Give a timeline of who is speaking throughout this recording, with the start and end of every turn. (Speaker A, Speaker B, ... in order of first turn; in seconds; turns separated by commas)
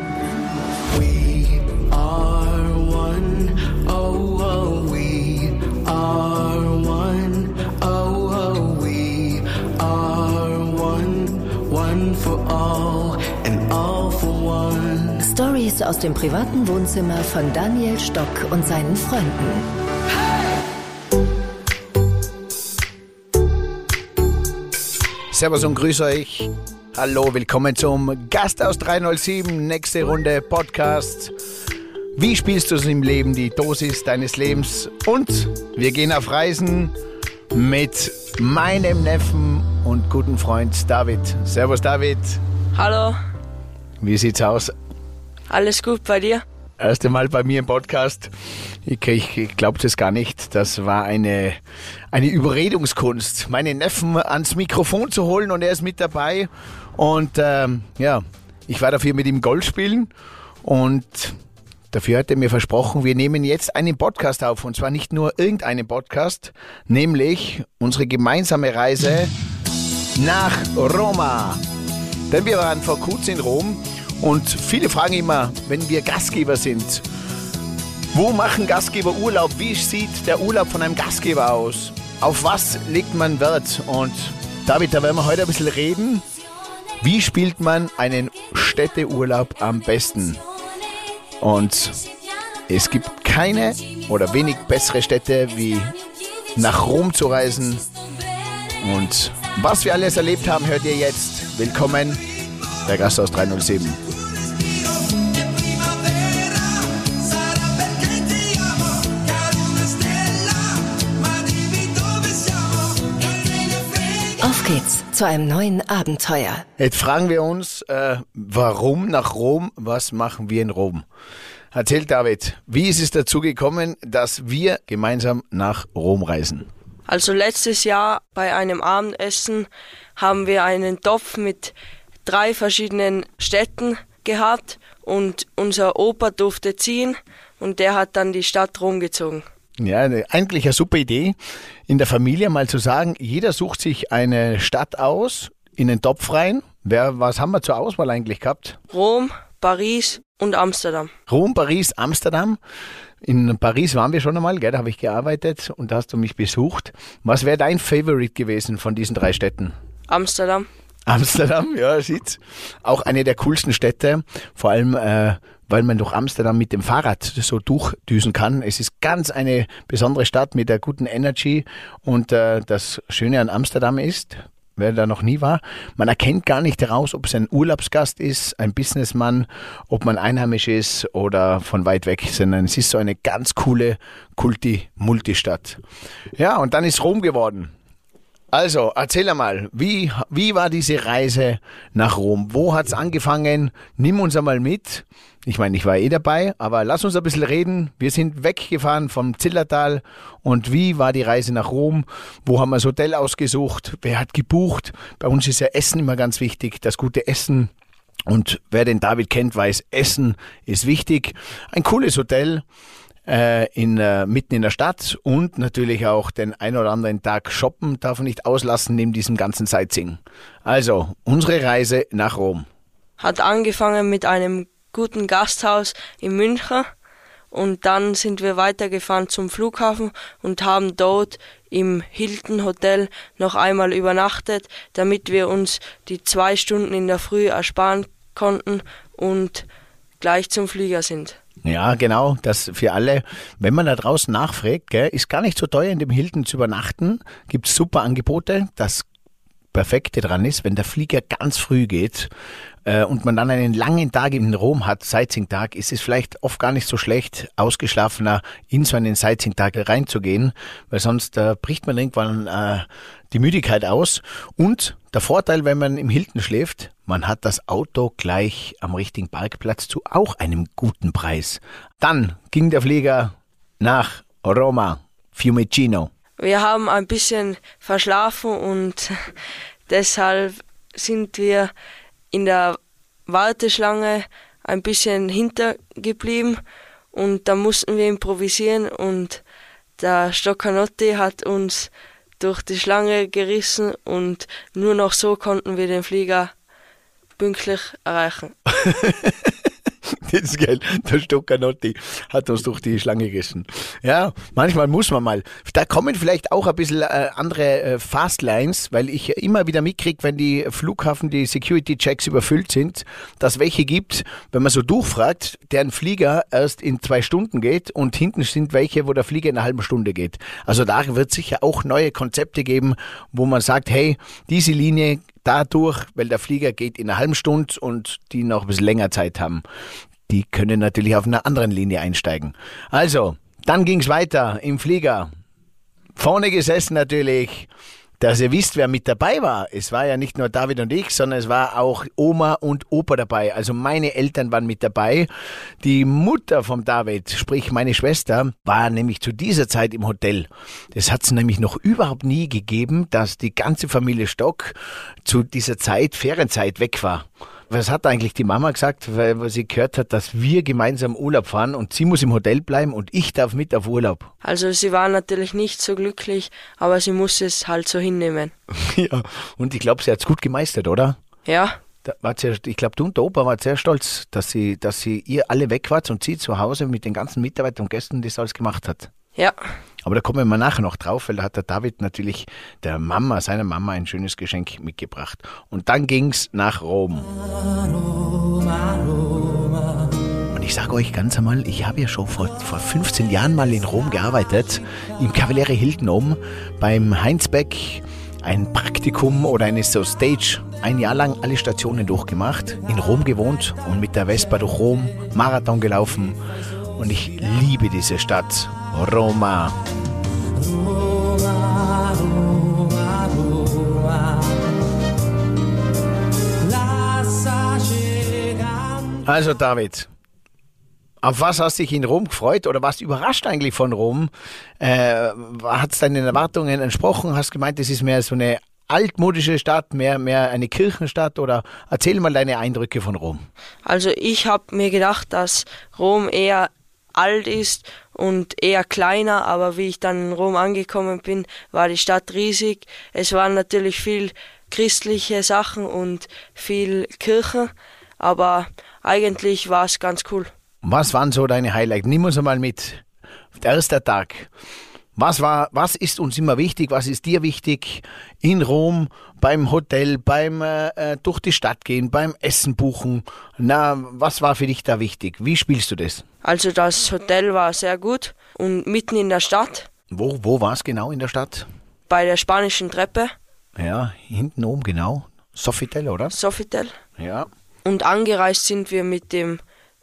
Speaker A: 0.9-15.2, Speaker B: 15.2-19.7, Speaker C: 25.3-31.3, Speaker C: 32.1-36.9, Speaker C: 37.5-42.4, Speaker D: 42.7-43.2, Speaker C: 44.0-44.7, Speaker D: 45.5-46.4, Speaker C: 46.8-48.3, Speaker C: 48.8-51.6, Speaker C: 52.1-60.1, Speaker C: 60.6-61.4, Speaker C: 61.9-69.3, Speaker C: 70.2-71.6, Speaker C: 72.3-77.0, Speaker C: 78.1-86.2, Speaker C: 87.0-90.4, Speaker C: 91.4-92.0, Speaker C: 92.7-95.9, Speaker C: 96.5-97.9, Speaker C: 98.8-102.2, Speaker C: 102.8-104.0, Speaker A: 104.5-114.4, Speaker B: 114.4-116.6, Speaker C: 116.8-121.0, Speaker C: 121.7-126.7, Speaker D: 127.1-131.7, Speaker D: 132.2-139.4, Speaker C: 139.8-141.3, Speaker C: 141.9-148.8, Speaker D: 148.9-151.1, Speaker C: 151.3-152.6, Speaker C: 153.2-159.7, Speaker D: 160.1-160.7, Speaker C: 161.1-185.8, Speaker C: 186.3-187.7, Speaker C: 188.5-207.7, Speaker C: 208.3-212.6, Speaker C: 213.2-222.7, Speaker D: 223.2-226.9, Speaker D: 227.5-239.7, Speaker D: 240.2-241.4, Speaker C: 241.6-249.1, Speaker C: 249.7-252.3, Speaker C: 252.8-276.1, Speaker D: 276.4-279.2, Speaker D: 279.9-281.7, Speaker D: 282.3-286.6, Speaker D: 287.1-289.4, Speaker D: 290.0-296.5, Speaker D: 297.4-298.5, Speaker C: 298.7-329.6, Speaker C: 330.3-335.3, Speaker C: 336.1-345.3, Speaker C: 345.8-364.3, Speaker D: 364.4-368.5, Speaker C: 368.7-371.2, Speaker D: 371.4-371.8, Speaker C: 372.0-379.1, Speaker D: 379.4-379.6, Speaker C: 380.0-387.3, Speaker C: 390.5-406.4, Speaker C: 406.9-409.8, Speaker C: 419.2-420.1, Speaker C: 421.2-433.4, Speaker D: 433.8-450.5, Speaker C: 450.8-453.0, Speaker C: 453.6-454.5, Speaker C: 455.1-466.2, Speaker D: 466.4-469.9, Speaker C: 470.1-471.6, Speaker D: 472.1-473.3, Speaker C: 473.8-476.3, Speaker D: 476.3-476.9, Speaker C: 477.2-477.5, Speaker D: 477.8-479.6